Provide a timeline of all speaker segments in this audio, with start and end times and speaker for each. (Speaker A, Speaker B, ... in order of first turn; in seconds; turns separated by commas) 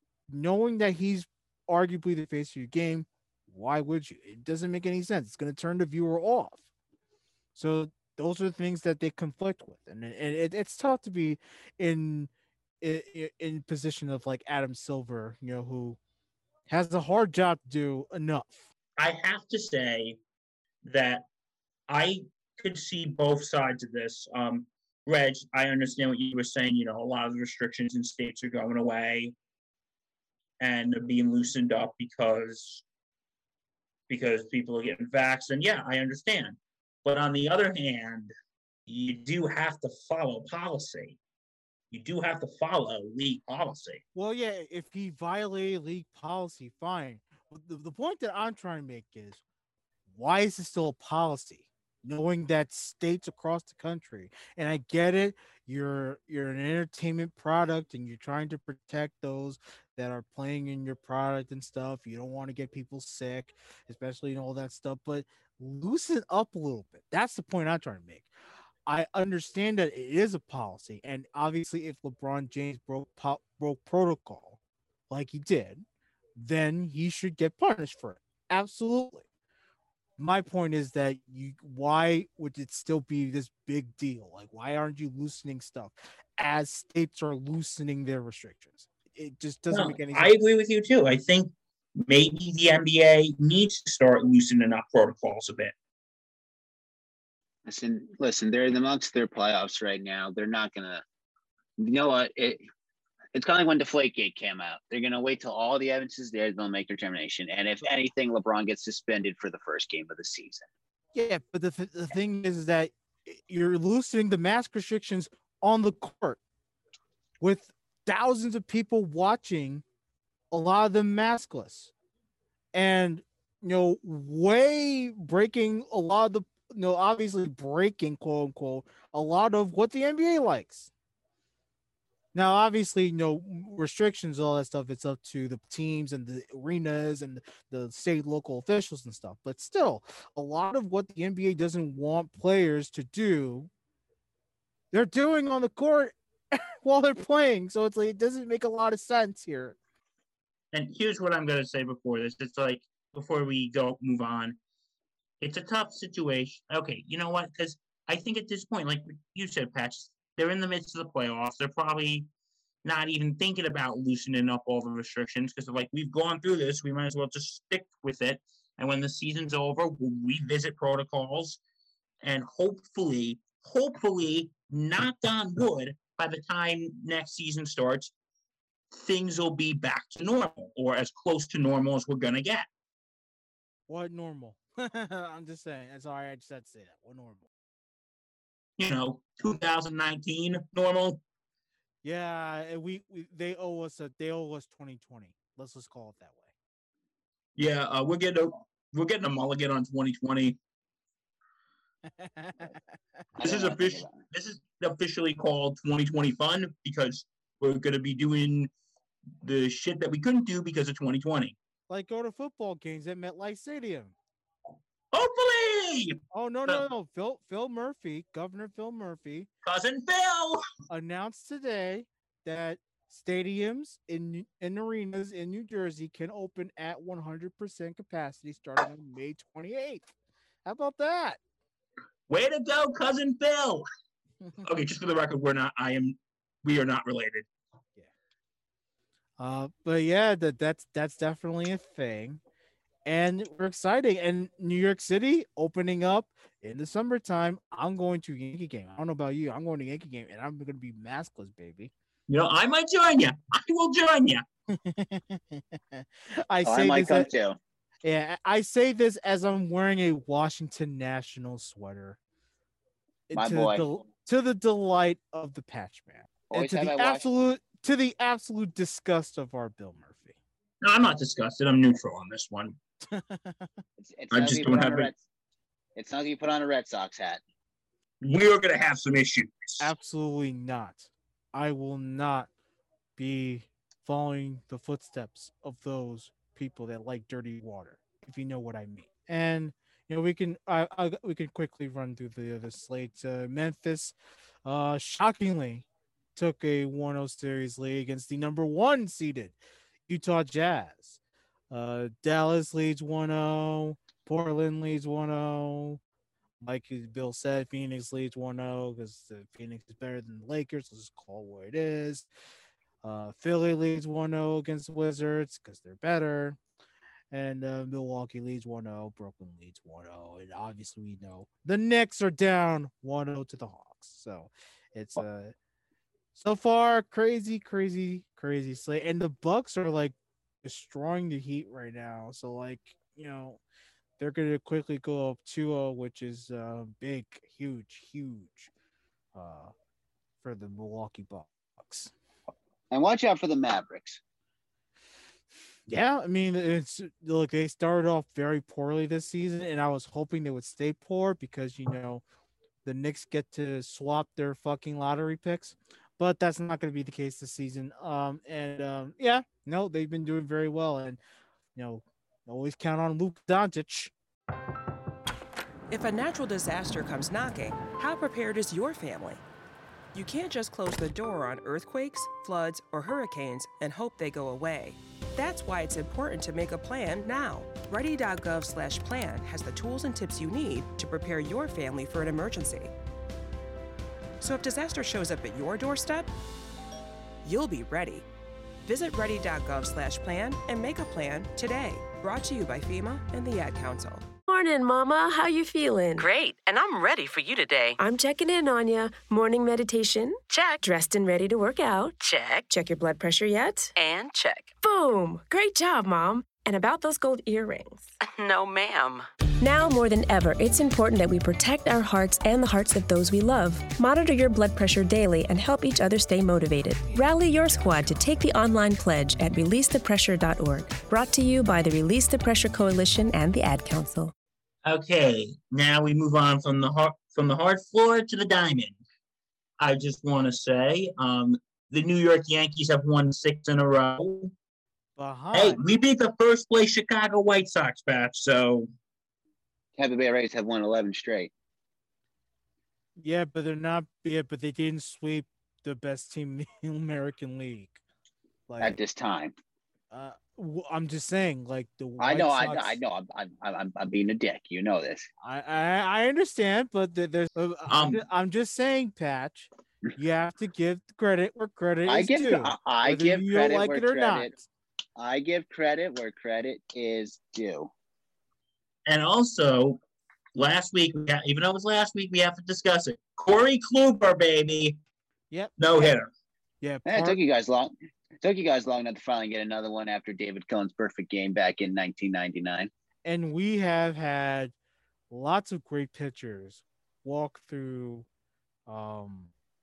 Speaker A: 0.3-6.6, Speaker A: 7.5-12.3, Speaker A: 12.8-16.0, Speaker A: 16.7-18.6, Speaker B: 19.0-20.2, Speaker B: 20.8-21.2, Speaker B: 21.9-29.3, Speaker B: 30.6-32.8, Speaker B: 34.1-38.3, Speaker B: 38.9-41.2, Speaker B: 41.9-44.0, Speaker A: 44.1-49.4, Speaker A: 50.1-68.3, Speaker A: 68.9-74.6, Speaker A: 75.1-75.8, Speaker A: 76.3-79.2, Speaker A: 80.2-90.3, Speaker B: 89.7-95.7, Speaker C: 97.7-101.0, Speaker C: 101.8-102.6, Speaker C: 103.3-110.7, Speaker A: 111.1-116.4, Speaker A: 117.4-119.8, Speaker A: 120.5-121.9, Speaker A: 122.7-130.9, Speaker A: 132.3-143.7, Speaker A: 144.9-149.8, Speaker B: 150.7-154.6, Speaker B: 155.4-162.3, Speaker B: 162.8-171.6, Speaker B: 172.2-178.1, Speaker B: 178.9-182.7, Speaker A: 183.9-187.5, Speaker B: 188.8-191.2, Speaker A: 192.0-196.5, Speaker B: 197.6-200.6, Speaker A: 202.2-202.8, Speaker C: 203.4-204.1, Speaker B: 203.4-208.7, Speaker B: 209.4-211.5, Speaker A: 211.9-214.1, Speaker B: 215.1-216.8, Speaker A: 216.3-219.5, Speaker B: 219.6-220.6, Speaker A: 220.9-230.1, Speaker A: 230.6-231.4, Speaker B: 232.3-233.8, Speaker B: 234.6-237.5, Speaker A: 239.4-242.4, Speaker A: 243.1-251.9, Speaker B: 252.3-254.4, Speaker A: 254.7-257.3, Speaker C: 256.6-257.6, Speaker A: 258.0-262.2, Speaker A: 263.3-270.4, Speaker C: 263.3-263.8, Speaker C: 266.5-267.3, Speaker B: 270.8-272.8, Speaker A: 273.1-273.8, Speaker C: 274.0-275.2, Speaker B: 274.3-275.1, Speaker C: 275.9-277.4, Speaker B: 278.2-279.9, Speaker A: 279.8-282.5, Speaker A: 283.2-299.6, Speaker A: 300.1-301.2, Speaker A: 301.7-306.0, Speaker A: 306.6-312.3, Speaker A: 313.0-316.6, Speaker A: 317.3-325.5, Speaker A: 326.3-333.6, Speaker A: 334.2-338.7, Speaker A: 339.3-339.7, Speaker A: 340.4-342.1, Speaker C: 342.9-344.2, Speaker A: 345.9-352.2, Speaker A: 352.8-361.2, Speaker A: 361.7-364.1, Speaker D: 365.9-369.4, Speaker D: 370.1-382.9, Speaker D: 384.4-386.3, Speaker D: 387.4-388.2, Speaker D: 388.8-394.3, Speaker E: 394.5-396.3, Speaker F: 396.2-398.0, Speaker E: 398.0-403.9, Speaker F: 400.5-400.8, Speaker F: 402.2-402.6, Speaker F: 403.9-404.7, Speaker E: 404.8-408.1, Speaker F: 408.2-409.3, Speaker E: 409.6-424.3, Speaker B: 424.8-429.0, Speaker B: 429.8-434.5, Speaker A: 435.2-435.8, Speaker B: 435.5-438.9, Speaker C: 440.0-441.5, Speaker A: 443.2-448.0, Speaker A: 448.7-449.0, Speaker C: 448.8-449.5, Speaker A: 450.1-453.0, Speaker C: 452.2-455.3, Speaker A: 455.4-464.6, Speaker B: 457.9-458.2, Speaker C: 462.1-464.5, Speaker C: 465.2-467.9, Speaker B: 469.1-470.0, Speaker B: 470.5-475.0, Speaker A: 475.5-475.8, Speaker B: 475.8-476.3, Speaker A: 476.8-477.4, Speaker C: 477.1-482.9, Speaker A: 483.2-484.7, Speaker A: 485.3-488.3, Speaker A: 488.9-489.5